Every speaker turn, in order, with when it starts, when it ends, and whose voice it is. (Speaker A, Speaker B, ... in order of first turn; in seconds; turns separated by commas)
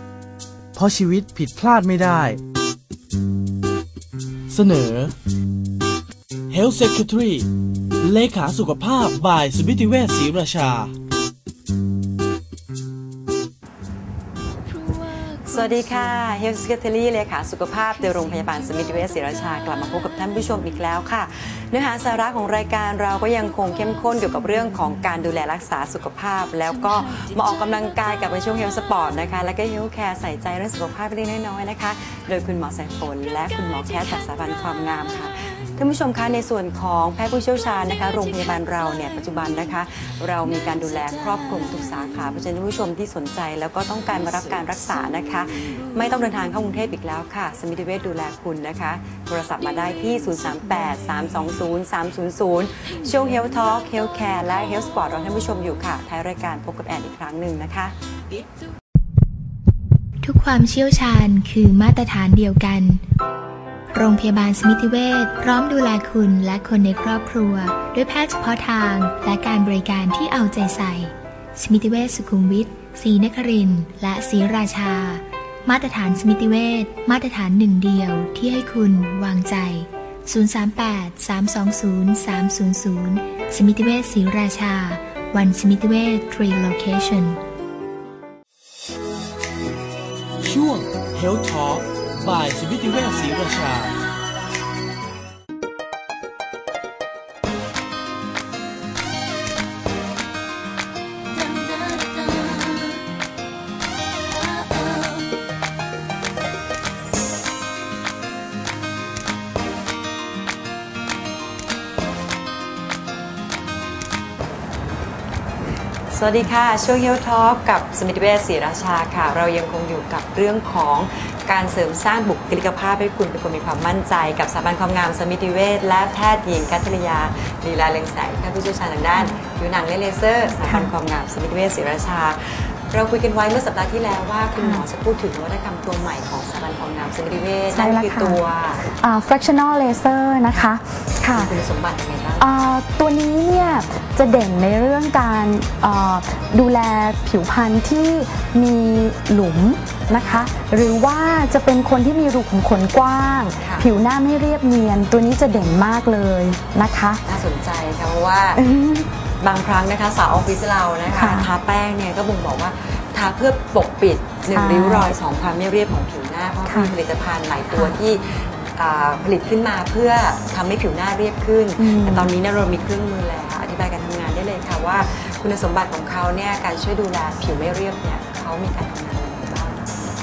Speaker A: 0.7-2.4, Speaker A: 4.5-5.1, Speaker A: 6.5-7.5, Speaker A: 8.0-10.9, Speaker B: 15.3-57.9, Speaker C: 60.2-63.0, Speaker C: 63.9-87.4, Speaker A: 90.4-93.9, Speaker B: 116.1-138.8, Speaker D: 129.1-129.4, Speaker D: 134.6-134.8, Speaker D: 137.7-141.5, Speaker B: 141.3-142.5, Speaker D: 142.4-157.2, Speaker B: 153.6-153.9, Speaker B: 157.2-158.6, Speaker D: 158.5-159.1, Speaker B: 159.4-180.1, Speaker D: 161.1-161.5, Speaker D: 164.5-165.1, Speaker D: 166.7-166.9, Speaker D: 167.7-168.0, Speaker D: 171.8-172.3